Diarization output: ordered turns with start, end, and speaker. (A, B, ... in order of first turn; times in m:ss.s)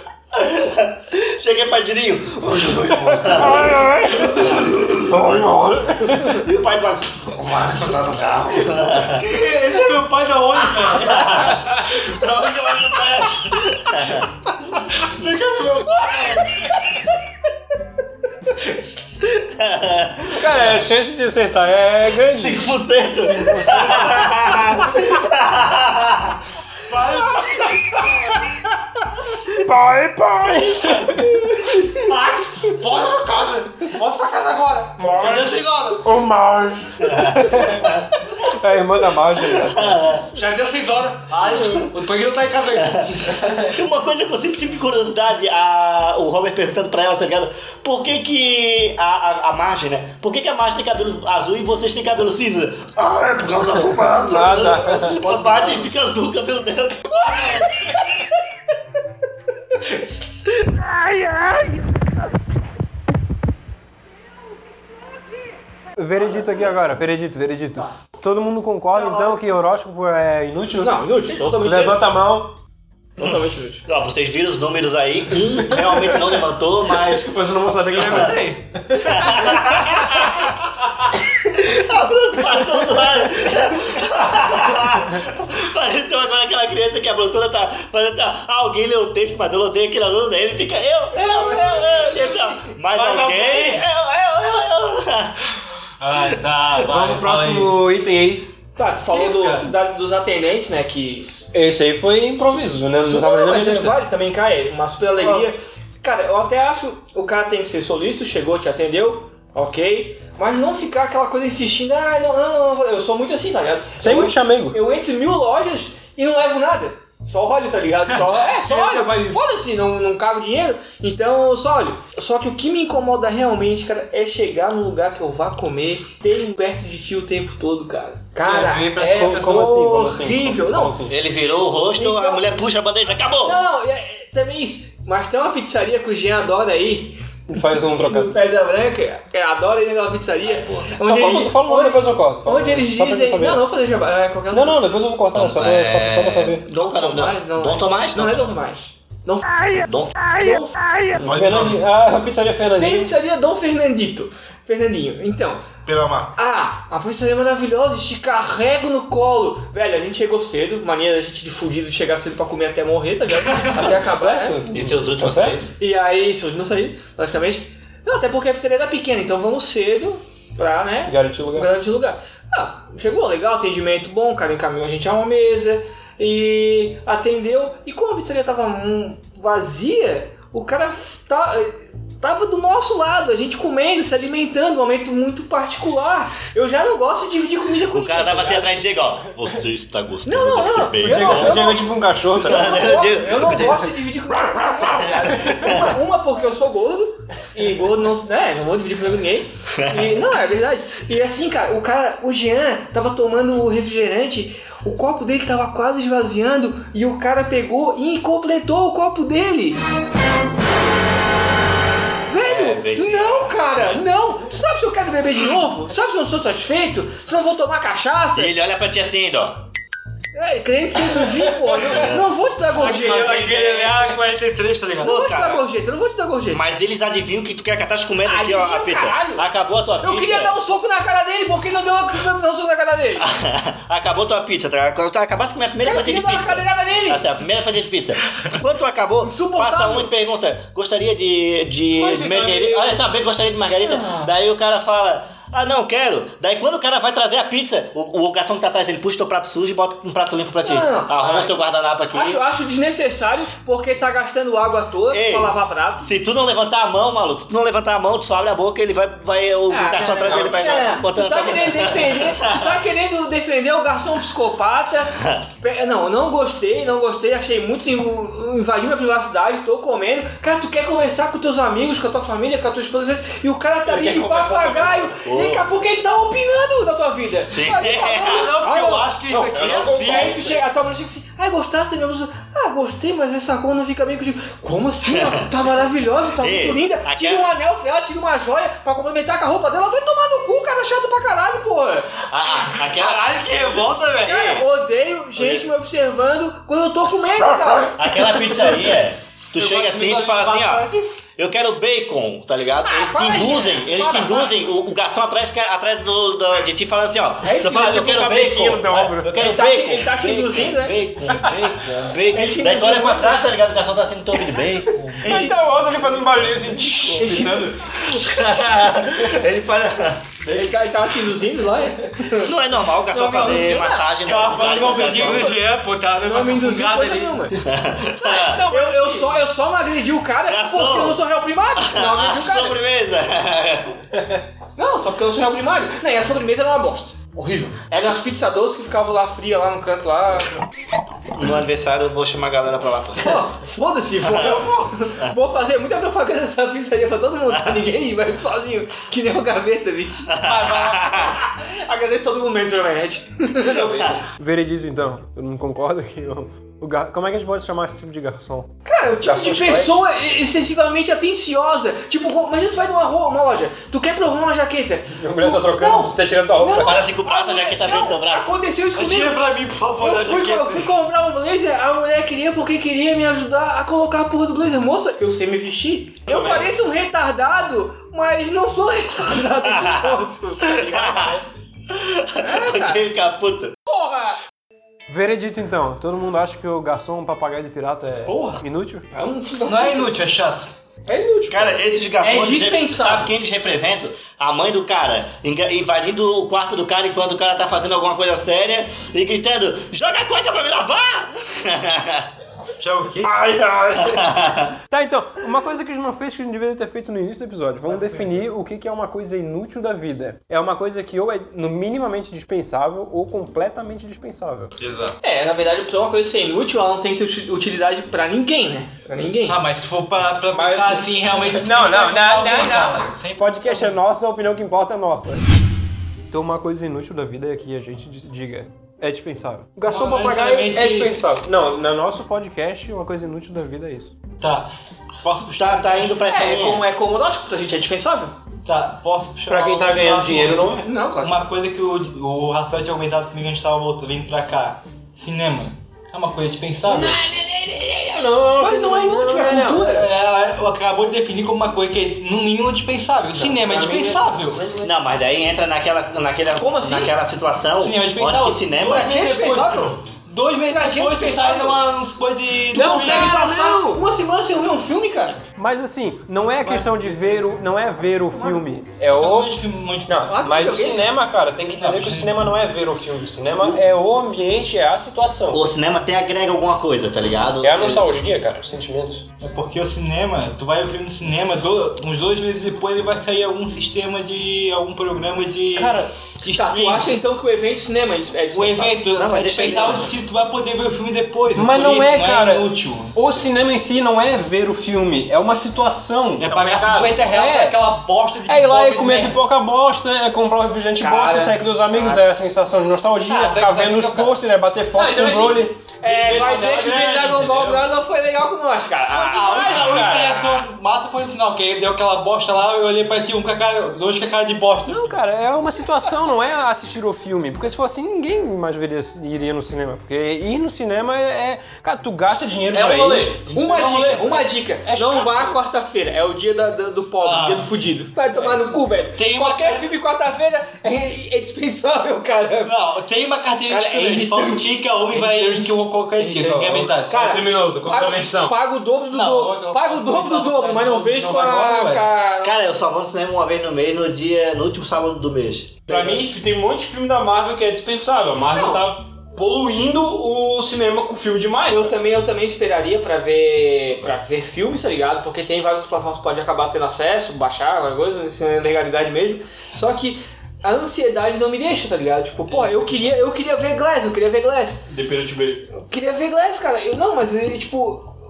0:00.3-0:05.0 A
0:03.1-0:06.4 B
0:06.2-0:09.3 A
0:09.0-0:13.6 C
0:11.0-0:14.3 A
0:15.0-0:16.8 C
0:19.2-0:20.7 A
0:20.3-0:24.8 B
0:22.2-0:26.4 A
0:26.9-0:28.4 C
0:29.5-0:31.4 B
0:31.6-0:36.1 C
0:36.0-0:40.2 B
0:37.0-0:38.1 A
0:39.4-0:40.3 A
0:40.3-0:43.7 C
0:41.6-0:41.9 A
0:42.7-0:58.0 A
0:54.1-0:55.2 B
0:55.0-0:55.8 C
1:06.0-1:12.6 B
1:08.9-1:09.4 C
1:10.8-1:12.1 D
1:13.2-1:13.8 D
1:13.2-1:17.4 A
1:15.9-1:16.2 B
1:17.0-1:20.3 B
1:17.9-1:18.4 A
1:18.1-1:18.6 C
1:19.0-1:20.4 A
1:21.4-1:35.4 A
1:31.1-1:32.4 D
1:32.9-1:33.8 D
1:36.0-1:37.8 C
1:36.8-1:38.5 B
1:38.8-1:41.5 D
1:39.1-1:39.7 C
1:41.5-1:44.0 B
1:43.0-2:11.1 D
1:45.2-1:45.5 B
1:54.0-1:54.8 B
1:58.2-1:59.4 C
2:08.4-2:09.8 C
2:09.0-2:11.2 B
2:11.1-2:13.6 A
2:12.0-2:25.0 D
2:17.5-2:18.4 B
2:20.5-2:20.9 A
2:21.0-2:23.6 B
2:24.5-2:26.6 B
2:25.3-2:28.5 A
2:26.7-2:29.5 D
2:29.8-2:30.2 A
2:30.4-2:30.8 D
2:31.2-2:33.1 B
2:31.2-2:31.8 C
2:32.8-2:35.7 D
2:36.4-2:44.7 D
2:43.8-2:45.6 B
2:44.7-2:45.7 A
2:45.8-3:08.8 D
2:51.1-2:51.7 B
3:07.9-3:11.7 A
3:10.2-3:11.8 D
3:11.0-3:12.8 B
3:12.4-3:13.9 A
3:12.4-3:29.8 D
3:15.0-3:15.9 A
3:19.8-3:20.1 A
3:32.3-3:38.6 D
3:32.4-3:33.6 A
3:38.4-3:39.7 A
3:40.3-3:44.2 D
3:41.8-3:42.3 A
3:42.7-3:45.1 C
3:45.0-3:45.6 A
3:45.0-3:46.6 D
3:46.5-3:50.6 A
3:48.2-3:49.5 D
3:50.0-3:53.3 D
3:53.2-4:12.4 A
3:55.8-3:57.3 D
3:59.2-4:00.1 D
4:02.0-4:03.0 B
4:03.8-4:04.3 D
4:10.6-4:11.6 D
4:12.1-4:16.1 D
4:15.1-4:22.8 A
4:19.7-4:52.2 D
4:20.3-4:20.7 B
4:25.2-4:25.4 A
4:33.9-4:35.1 E
4:35.3-4:35.7 A
4:37.5-4:38.6 A
4:38.1-4:40.4 C
4:39.5-4:40.2 B
4:39.5-4:40.5 E
4:45.1-4:45.5 A
4:46.4-4:47.5 A
4:52.3-4:53.3 A
4:52.8-4:54.3 C
4:54.2-4:58.2 D
4:54.2-4:54.7 A
4:55.4-4:55.7 A
4:58.0-5:15.1 A
4:59.6-5:00.9 C
5:00.0-5:00.5 D
5:02.8-5:04.6 D
5:07.4-5:09.4 B
5:09.3-5:11.0 D
5:11.3-5:11.9 B
5:12.3-5:13.5 D
5:15.2-5:15.6 D
5:15.2-5:17.8 B
5:16.9-5:17.8 D
5:18.0-5:20.2 A
5:20.4-5:25.6 D
5:22.3-5:25.6 A
5:24.2-5:27.4 C
5:26.2-5:27.6 D
5:27.6-5:28.7 A
5:28.2-5:32.8 D
5:30.5-5:31.2 A
5:31.8-5:34.0 A
5:34.8-5:40.5 D
5:41.3-5:43.4 A
5:43.2-5:54.2 D
5:44.2-5:45.4 A
5:47.5-5:47.8 A
5:50.3-5:51.4 A
5:53.8-5:54.2 A
5:54.4-6:00.0 B
5:58.8-6:09.4 D
6:05.2-6:07.0 B
6:06.7-6:08.6 A
6:09.0-6:10.9 C
6:10.0-6:21.2 D
6:16.3-6:16.7 E
6:19.6-6:21.4 A
6:21.9-6:23.8 A
6:22.4-6:23.1 D
6:23.9-6:24.4 D
6:25.1-6:29.1 B
6:28.3-6:28.6 D
6:29.1-6:30.3 D
6:29.7-6:30.7 C
6:31.1-6:31.8 B
6:31.5-6:42.3 A
6:32.2-6:33.3 D
6:42.8-6:43.3 C
6:43.2-6:54.7 B
6:44.0-6:44.8 A
6:47.9-6:48.4 C
6:54.8-6:55.2 C
6:55.2-6:59.6 D
6:59.5-7:04.0 C
7:00.5-7:05.4 B
7:06.3-7:14.2 B
7:09.9-7:11.2 C
7:14.4-7:14.7 C
7:15.2-7:16.3 C
7:15.6-7:16.8 A
7:16.3-7:18.3 D
7:18.7-7:27.2 C
7:19.5-7:20.9 B
7:20.8-7:21.4 D
7:26.9-7:30.0 B
7:28.6-7:30.1 D
7:29.8-7:34.6 C
7:33.4-7:34.9 B
7:34.8-7:39.2 A
7:36.6-7:37.2 D
7:37.8-7:43.4 C
7:38.8-7:40.0 D
7:40.7-7:41.8 D
7:42.7-7:44.0 B
7:42.7-7:45.4 D
7:45.6-7:49.5 B
7:46.6-7:47.4 C
7:49.1-7:50.5 C
7:50.1-7:55.7 B
7:50.3-7:51.1 D
7:51.8-7:52.5 C
7:55.5-7:58.1 A
7:57.6-7:59.2 B
7:59.4-8:07.1 C
8:05.8-8:06.1 B
8:06.5-8:10.1 D
8:08.5-8:13.2 C
8:09.2-8:10.1 A
8:11.5-8:16.6 B
8:16.4-8:19.4 C
8:16.5-8:17.2 E
8:17.2-8:17.8 B
8:18.5-8:25.8 B
8:21.0-8:22.2 D
8:23.3-8:24.3 C
8:25.0-8:27.9 E
8:26.0-8:30.2 D
8:29.2-8:35.2 C
8:29.5-8:30.4 B
8:29.8-8:30.2 E
8:34.9-8:43.4 B
8:42.7-8:44.5 E
8:43.5-8:52.7 D
8:44.8-8:45.6 B
8:47.2-8:47.7 C
8:48.4-8:49.9 C
8:52.6-8:57.1 C
8:53.7-9:02.6 D
8:56.4-8:58.6 E
8:59.1-9:02.0 C
9:02.4-9:05.8 A
9:05.9-9:12.0 E
9:05.9-9:06.2 C
9:08.5-9:08.8 D
9:11.7-9:24.9 D
9:22.6-9:23.0 E
9:24.9-9:25.7 E
9:25.7-9:28.1 D